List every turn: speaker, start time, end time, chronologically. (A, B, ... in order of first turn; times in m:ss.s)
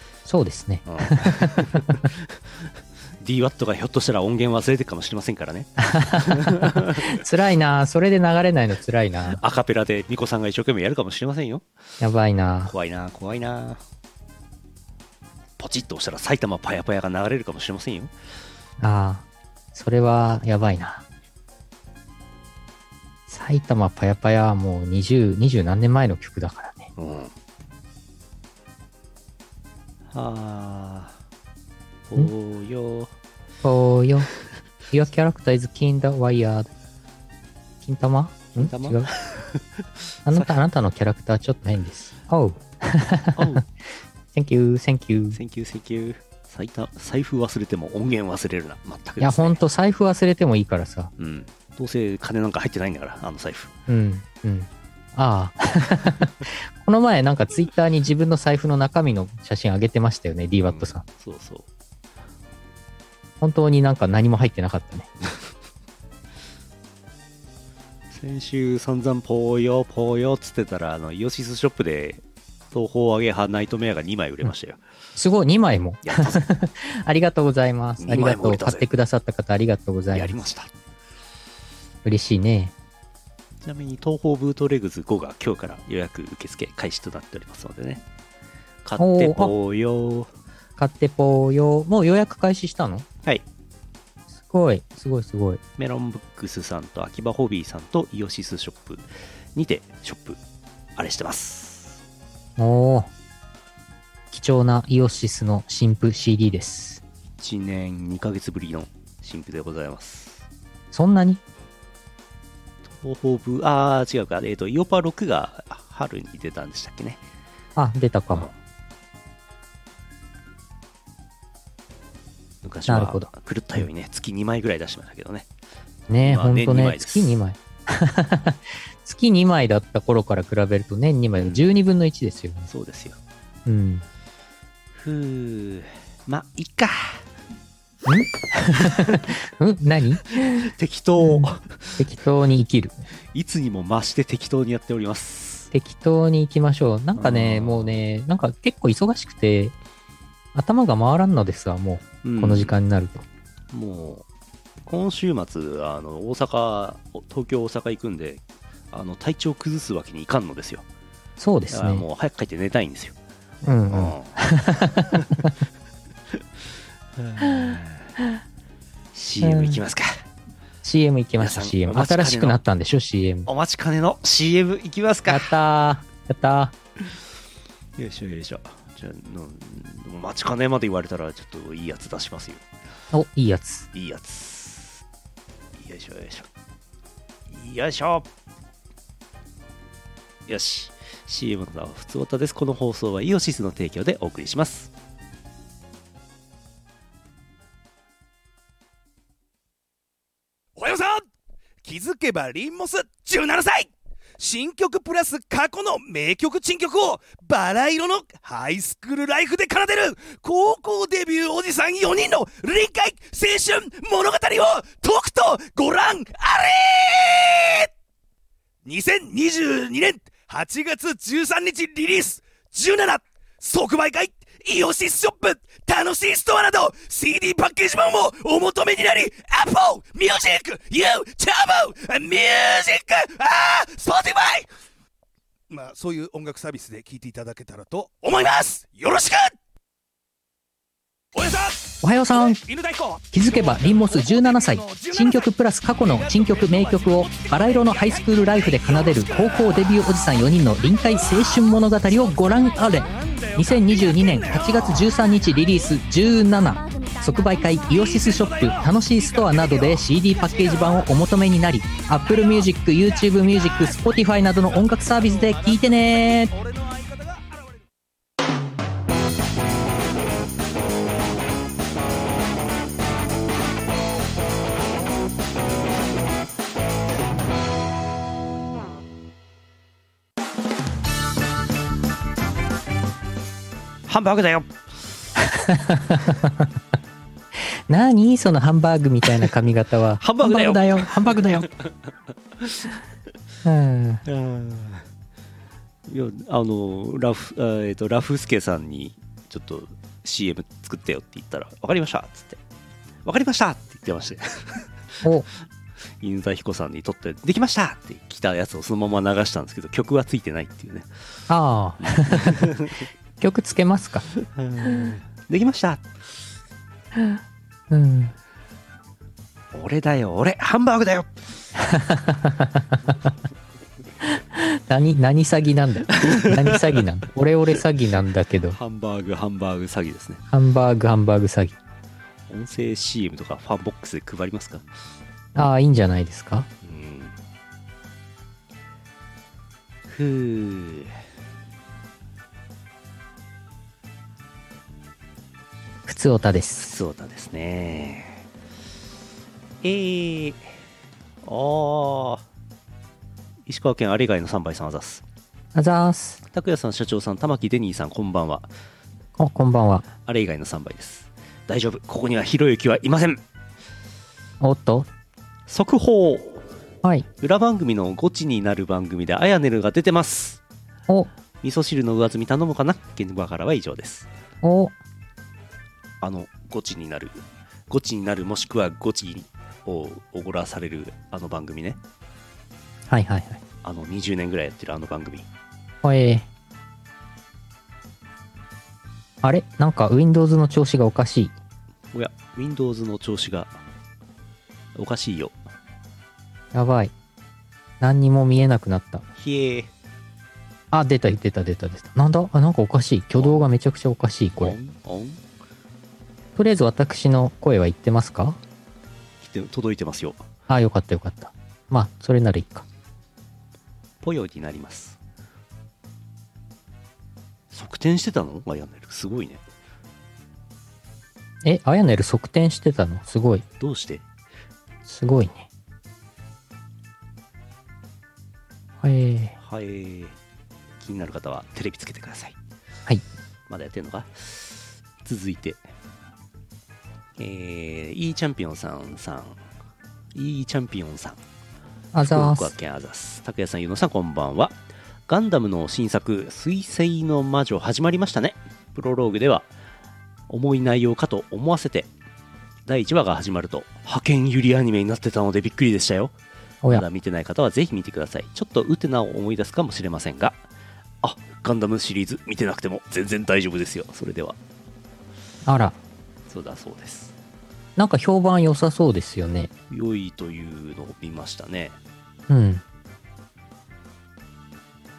0:00.2-0:02.0 A
0:00.8-0:02.7 B
0:03.2-0:07.2 B
0:05.8-0:09.4 A
0:09.3-0:11.6 B
0:12.0-0:12.7 A
0:12.6-0:13.8 B
0:15.6-0:18.1 B
0:18.8-0:21.0 A
0:23.3-0:26.9 A
0:27.0-0:27.3 B
0:30.1-0:31.2 B
0:32.1-0:33.1 B
0:33.6-0:34.3 A
0:34.9-0:36.7 A
0:37.8-0:39.1 A
0:38.5-0:39.6 B
0:40.2-0:43.6 A
0:40.3-0:40.5 B
0:43.3-0:43.6 B
0:44.3-0:45.4 A
0:45.3-0:49.6 B
0:49.2-0:51.1 A
0:51.2-0:53.7 B
0:53.9-1:01.0 A
1:00.6-1:01.7 B
1:03.4-1:05.1 A
1:08.1-1:14.8 B
1:15.2-1:20.4 A
1:16.0-1:16.4 B
1:18.0-1:18.9 B
1:20.1-1:20.7 B
1:22.0-1:22.7 A
1:23.6-1:28.0 B
1:28.8-1:30.3 B
1:29.0-1:29.5 A
1:30.8-1:33.0 A
1:34.4-1:35.6 A
1:35.8-1:40.4 B
1:41.0-1:42.0 B
1:42.6-1:43.1 A
1:44.3-1:47.0 A
1:47.4-1:50.4 B
1:50.9-1:51.4 A
1:52.8-1:57.2 B
1:57.8-1:58.5 A
2:02.6-2:05.5 B
2:02.9-2:03.3 A
2:06.1-2:12.7 A
2:06.2-2:07.4 B
2:11.4-2:11.6 B
2:12.7-2:13.2 B
2:13.6-2:14.0 A
2:14.9-2:17.2 B
2:18.0-2:20.2 A
2:18.8-2:19.2 B
2:20.4-2:22.0 B
2:21.2-2:21.5 A
2:22.0-2:23.0 A
2:23.3-2:25.7 B
2:25.7-2:29.7 A
2:27.2-2:28.0 B
2:30.5-2:33.2 A
2:32.2-2:32.7 B
2:33.7-2:34.2 B
2:34.8-2:40.8 B
2:41.4-2:42.0 A
2:41.7-2:43.2 B
2:43.6-2:45.5 A
2:43.9-2:44.3 B
2:47.1-2:48.1 B
2:49.1-2:50.2 B
2:49.4-2:49.8 A
2:50.8-2:53.5 A
2:51.4-2:52.6 B
2:53.4-2:55.5 B
2:55.3-2:56.7 A
2:58.0-3:02.6 B
3:03.1-3:03.9 A
3:03.9-3:05.0 B
3:05.8-3:06.5 B
3:07.5-3:08.3 B
3:10.5-3:14.9 B
3:20.8-3:21.2 C
3:21.8-3:37.9 C
3:38.8-3:54.7 C
3:55.7-3:59.5 C
4:01.3-4:05.5 C
4:02.0-4:02.6 A
4:03.3-4:26.5 A
4:06.1-4:10.0 C
4:12.2-4:15.1 C
4:17.9-4:21.2 C
4:22.2-4:22.7 C
4:23.3-4:24.1 C
4:24.6-4:27.5 C
4:44.1-4:44.9 B
4:45.4-4:46.7 A
4:47.9-4:51.7 A
4:50.2-4:52.0 B
4:52.6-4:52.9 B
4:53.6-4:54.2 A
4:54.2-4:55.0 B
4:56.1-5:02.6 B
5:03.2-5:04.9 B
5:06.2-5:11.1 B
5:11.5-5:12.8 A
5:12.0-5:13.0 B
5:13.4-5:14.3 A
5:14.4-5:16.1 B
5:17.9-5:18.3 A
5:19.7-5:21.4 B
5:21.8-5:22.9 A
5:24.9-5:28.8 A
5:26.2-5:26.8 B
5:28.7-5:30.4 B
5:30.5-5:31.8 A
5:32.5-5:34.9 B
5:35.5-5:36.7 A
5:36.8-5:37.3 B
5:40.1-5:41.2 B
5:46.0-5:47.0 A
5:46.8-5:48.4 B
5:49.8-5:50.8 B
5:51.4-5:52.4 B
5:53.6-5:55.2 B
5:55.7-5:56.4 A
5:56.5-5:58.7 B
5:59.4-6:00.1 A
6:00.2-6:03.4 B
6:04.6-6:05.1 A
6:05.7-6:06.7 B
6:07.4-6:10.6 B
6:11.6-6:14.3 B
6:14.6-6:14.9 A
6:16.2-6:22.0 B
6:23.1-6:23.6 A
6:23.8-6:25.5 B
6:26.0-6:26.4 A
6:29.4-6:31.5 A
6:32.1-6:33.8 B
6:34.9-6:35.6 B
6:36.7-6:37.1 A
6:38.0-6:39.2 A
6:39.4-6:39.9 B
6:40.9-6:44.8 A
6:43.4-6:43.7 B
6:44.6-6:45.4 B
6:46.6-6:48.6 A
6:49.4-6:50.4 B
6:50.7-6:52.8 A
6:54.2-6:55.2 B
6:57.7-6:59.6 B
7:01.6-7:03.6 A
7:03.8-7:04.2 B
7:05.1-7:05.6 A
7:09.0-7:09.5 A
7:09.6-7:10.4 B
7:11.0-7:12.6 B
7:13.7-7:15.9 B
7:17.4-7:19.6 B
7:20.3-7:21.4 B
7:22.1-7:22.7 A
7:22.2-7:29.7 B
7:30.5-7:32.1 B
7:32.8-7:36.3 B
7:36.9-7:40.6 B
7:41.2-7:44.6 B
7:45.6-7:46.0 A
7:46.5-7:47.3 B
7:48.0-7:49.7 A
7:49.9-7:52.0 B
7:52.5-7:52.8 A